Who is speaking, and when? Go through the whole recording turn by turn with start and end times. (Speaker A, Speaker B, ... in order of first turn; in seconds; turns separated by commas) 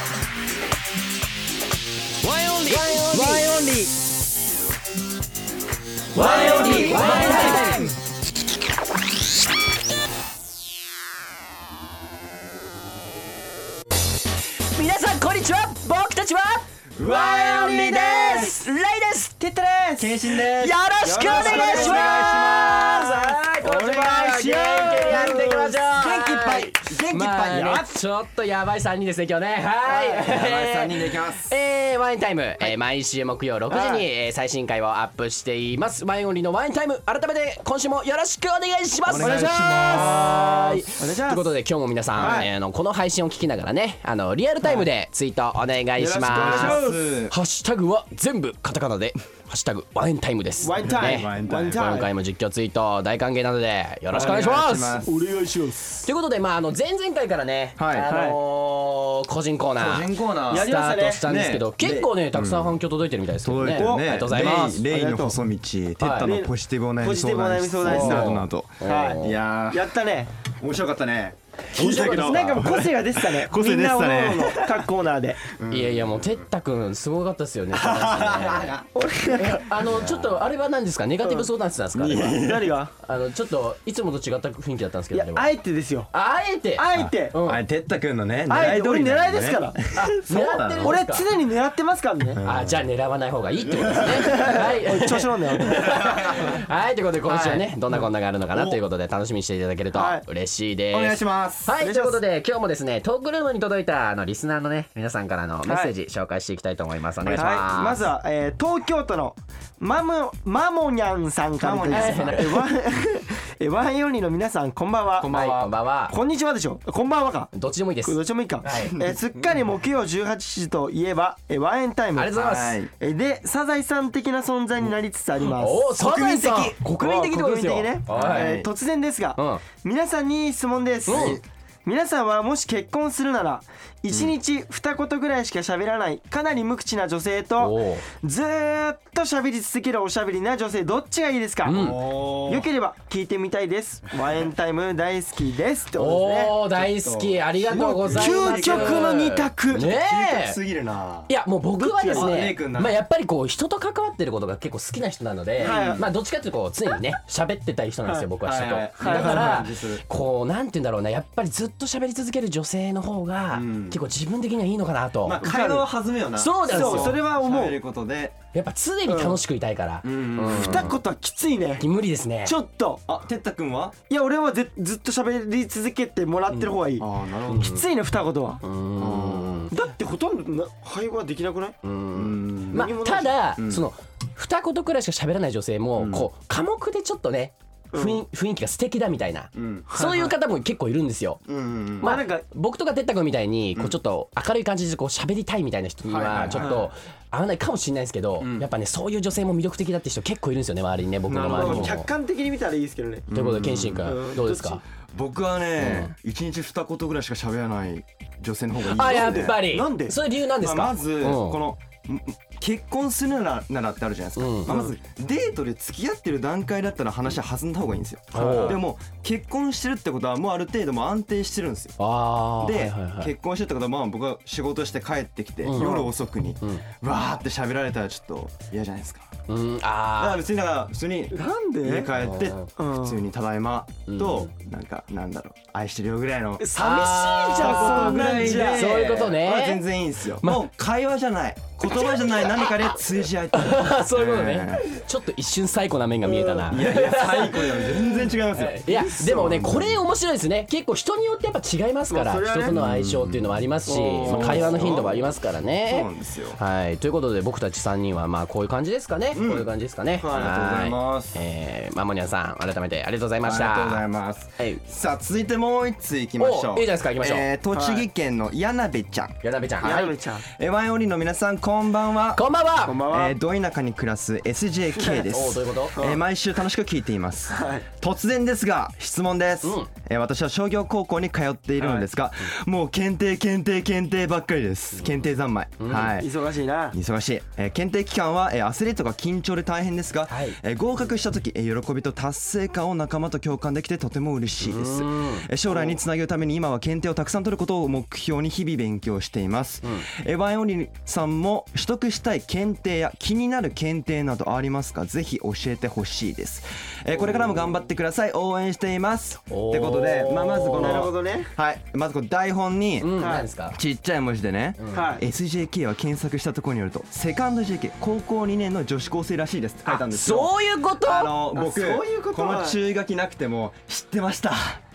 Speaker A: 2.2-3.9, Speaker B: 2.6-3.5, Speaker B: 6.1-7.9, Speaker C: 6.1-7.8, Speaker A: 6.2-8.0, Speaker B: 14.7-19.4, Speaker C: 16.9-18.7, Speaker A: 19.4-20.2, Speaker C: 20.0-23.4, Speaker B: 20.5-55.0, Speaker A: 21.0-22.3, Speaker A: 23.6-25.8, Speaker C: 24.8-27.9, Speaker C: 29.8-31.6, Speaker A: 33.7-34.0, Speaker C: 39.0-40.8, Speaker A: 39.2-40.3, Speaker A: 41.0-41.5, Speaker A: 42.1-42.5, Speaker A: 46.0-47.0, Speaker C: 46.0-47.4, Speaker A: 50.6-52.1, Speaker C: 50.8-52.0, Speaker C: 54.1-55.3, Speaker A: 55.0-56.1, Speaker B: 56.0-64.8, Speaker C: 57.8-58.1, Speaker A: 58.1-58.4, Speaker C: 59.8-62.8, Speaker A: 60.5-61.2, Speaker C: 63.4-74.8, Speaker A: 64.8-65.4, Speaker B: 66.0-66.3, Speaker A: 66.2-70.3, Speaker B: 67.8-69.4, Speaker B: 71.7-72.7, Speaker A: 71.8-75.5, Speaker C: 75.5-76.4, Speaker B: 75.7-78.8, Speaker C: 77.7-78.9, Speaker A: 78.9-79.8, Speaker B: 79.3-82.4, Speaker C: 79.8-80.3, Speaker A: 81.2-81.5, Speaker C: 81.9-82.8, Speaker A: 82.3-82.9, Speaker B: 83.0-85.5, Speaker A: 85.1-86.1, Speaker B: 86.1-87.6, Speaker A: 86.8-87.4, Speaker C: 86.9-91.0, Speaker A: 88.5-89.8, Speaker B: 90.0-91.3, Speaker A: 90.8-92.4, Speaker C: 92.3-92.8, Speaker B: 92.4-108.0, Speaker C: 93.7-94.7, Speaker A: 94.3-96.1, Speaker C: 95.6-96.6, Speaker A: 97.3-97.6, Speaker C: 97.9-98.8, Speaker A: 99.9-100.2, Speaker C: 100.9-101.8, Speaker A: 101.8-102.2, Speaker A: 105.7-105.9, Speaker A: 107.2-115.3, Speaker C: 111.6-112.5, Speaker B: 111.9-112.7, Speaker C: 115.2-115.7, Speaker B: 115.3-116.2, Speaker A: 116.1-117.5, Speaker B: 117.5-119.0, Speaker A: 118.0-122.3, Speaker B: 122.1-122.8, Speaker C: 122.3-122.9, Speaker A: 122.9-125.8, Speaker B: 125.4-128.6, Speaker C: 126.0-126.8, Speaker A: 126.9-146.7, Speaker C: 128.1-128.7, Speaker B: 129.3-129.6, Speaker B: 131.1-131.4, Speaker C: 131.1-131.4, Speaker C: 134.1-134.3, Speaker B: 137.6-138.0, Speaker B: 141.6-142.0, Speaker C: 141.7-142.7, Speaker B: 145.9-150.6, Speaker C: 146.8-149.1, Speaker A: 148.1-150.0, Speaker C: 149.8-151.3, Speaker B: 151.3-165.4, Speaker A: 151.8-152.5, Speaker C: 152.1-153.0, Speaker A: 155.6-156.1, Speaker C: 155.6-156.1, Speaker C: 158.4-160.0, Speaker A: 159.0-159.6, Speaker C: 163.5-164.0, Speaker C: 165.2-168.4, Speaker A: 165.4-165.9, Speaker B: 166.4-167.2, Speaker A: 166.7-167.8, Speaker B: 168.5-170.9, Speaker A: 169.1-169.4, Speaker C: 170.0-170.9, Speaker A: 170.5-171.9, Speaker B: 171.8-172.6, Speaker A: 172.4-173.0, Speaker C: 173.1-174.0, Speaker A: 174.1-178.6, Speaker C: 177.0-177.8, Speaker B: 177.5-177.8, Speaker B: 178.6-179.7, Speaker C: 179.0-179.7, Speaker A: 179.7-181.8, Speaker B: 181.8-191.4, Speaker C: 182.1-182.9, Speaker A: 182.7-183.5, Speaker C: 183.6-183.8, Speaker C: 186.0-186.3, Speaker A: 187.9-188.2, Speaker C: 189.5-189.9, Speaker A: 189.9-190.3, Speaker C: 191.4-192.2, Speaker B: 192.0-202.1, Speaker A: 192.0-192.4, Speaker C: 196.1-196.9, Speaker A: 196.5-196.9, Speaker C: 198.4-198.7, Speaker C: 201.3-202.0, Speaker A: 201.3-203.3, Speaker C: 203.3-204.2, Speaker B: 203.3-204.8, Speaker A: 204.0-204.8, Speaker C: 204.9-209.6, Speaker B: 205.8-206.1, Speaker B: 208.8-211.6, Speaker A: 209.0-210.2, Speaker C: 210.6-221.9, Speaker B: 214.4-214.8, Speaker A: 214.7-214.9, Speaker B: 218.3-218.8, Speaker A: 218.4-218.8, Speaker B: 222.0-223.3, Speaker C: 222.6-229.3, Speaker B: 225.6-226.1, Speaker A: 225.7-226.1, Speaker B: 226.6-226.8, Speaker B: 229.5-230.4, Speaker C: 230.2-245.0, Speaker A: 231.3-232.1, Speaker B: 232.1-232.7, Speaker A: 232.8-233.2, Speaker B: 234.1-234.5, Speaker A: 236.6-238.9, Speaker B: 236.7-239.9, Speaker B: 240.4-240.7, Speaker A: 242.2-242.7, Speaker B: 243.5-264.1, Speaker A: 246.2-246.9, Speaker C: 246.7-250.0, Speaker A: 252.1-252.8, Speaker C: 252.7-256.6, Speaker A: 253.9-254.8, Speaker C: 259.3-259.7, Speaker A: 260.2-260.5, Speaker C: 260.2-261.4, Speaker C: 263.4-272.4, Speaker B: 266.4-267.5, Speaker A: 267.7-268.1, Speaker B: 269.4-270.1, Speaker A: 269.8-270.5, Speaker B: 272.4-273.0, Speaker A: 272.8-273.4, Speaker C: 273.1-286.3, Speaker B: 275.1-276.0, Speaker A: 277.5-277.9, Speaker B: 279.6-279.9, Speaker A: 281.8-282.1, Speaker B: 285.8-286.2, Speaker A: 286.1-287.0, Speaker C: 286.9-324.8, Speaker B: 290.3-290.6, Speaker B: 294.6-295.5, Speaker A: 295.7-296.0, Speaker B: 309.5-311.1, Speaker A: 310.5-311.5, Speaker B: 313.0-313.8, Speaker A: 313.2-313.5, Speaker B: 314.8-315.2, Speaker A: 314.9-315.2, Speaker B: 319.9-321.3, Speaker A: 321.3-322.8